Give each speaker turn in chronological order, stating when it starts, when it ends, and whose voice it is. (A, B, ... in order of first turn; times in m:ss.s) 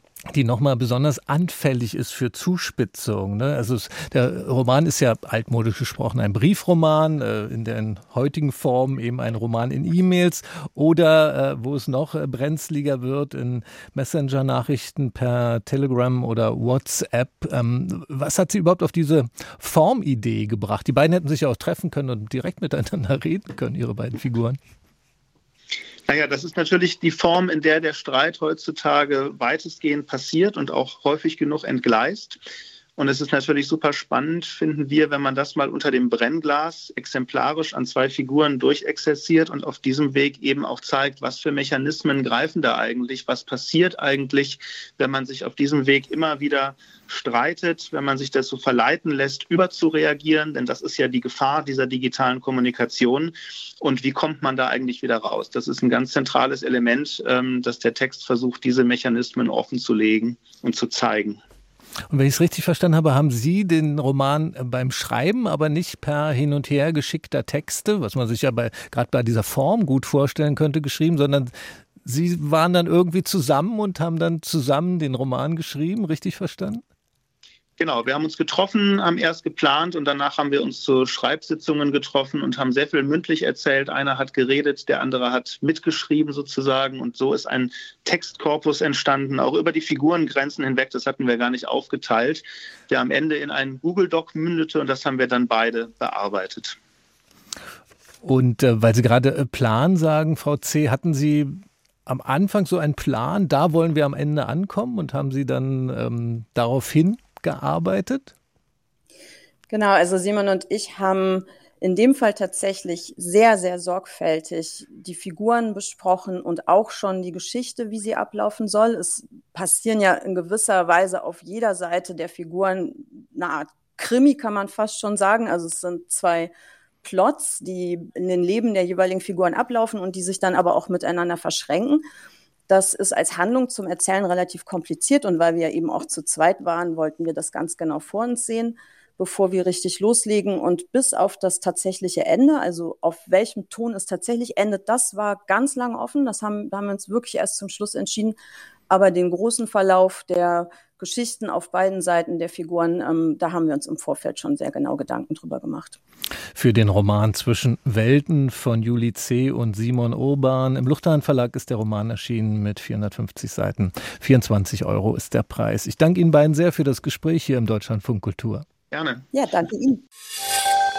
0:00.3-0:24.6 A
0:26.1-0:32.4 B
0:33.0-1:01.4 B
1:02.1-1:11.5 A
1:12.0-1:16.8 A
1:17.8-1:36.8 B
1:38.2-1:48.3 A
1:49.7-2:06.5 C
2:07.0-2:12.0 C
2:12.7-2:28.4 C
2:28.9-2:36.0 C
2:36.6-2:48.6 A
2:48.9-2:49.3 B
2:49.3-2:50.0 C